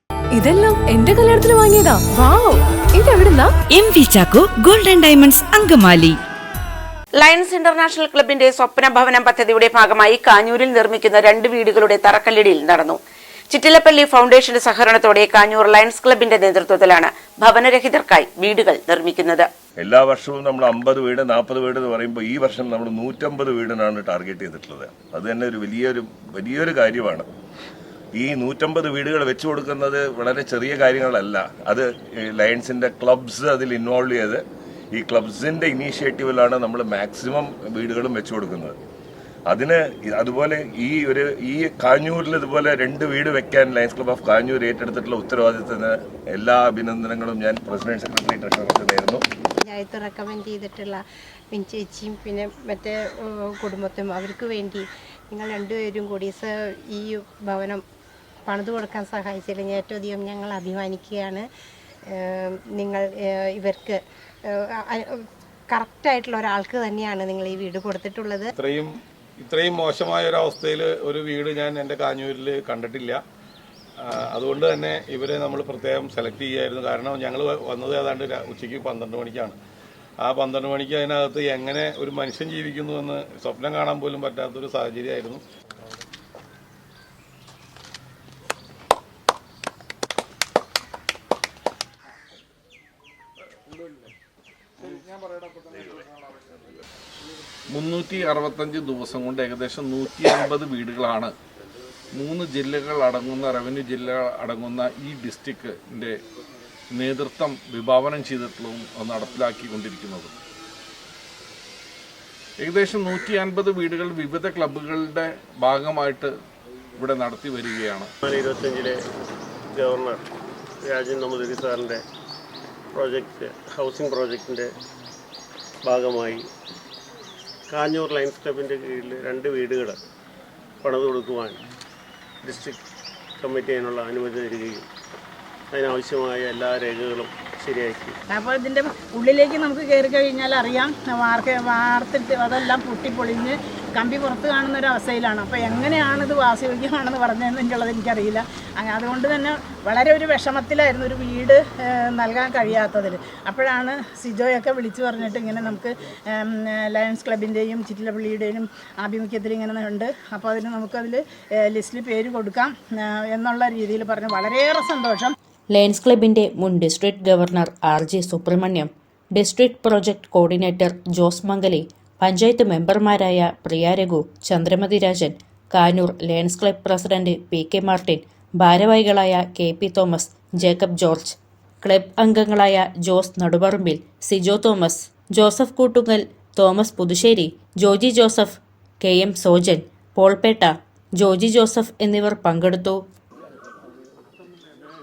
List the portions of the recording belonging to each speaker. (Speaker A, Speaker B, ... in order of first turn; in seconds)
Speaker A: 0.3-3.5
Speaker B: 3.7-6.2
Speaker C: 7.2-13.0, 13.5-19.5
Speaker D: 19.8-27.3, 28.1-34.4, 34.9-38.8, 39.5-49.2
Speaker E: 49.6-51.0, 51.5-57.8, 58.5-61.5, 62.2-65.1, 65.7-68.5
Speaker F: 68.6-73.2, 74.0-79.6, 80.2-85.4
Speaker G: 97.7-101.3, 102.2-106.2, 107.0-110.3, 112.6-116.3, 117.0-118.1
Speaker H: 118.2-119.0, 119.7-120.2, 120.8-122.0, 122.9-124.7, 125.8-126.4, 127.7-130.0, 130.8-131.6, 132.4-132.8, 133.4-134.9, 135.7-138.2
Speaker I: 138.3-165.3
Speaker J: 165.7-193.0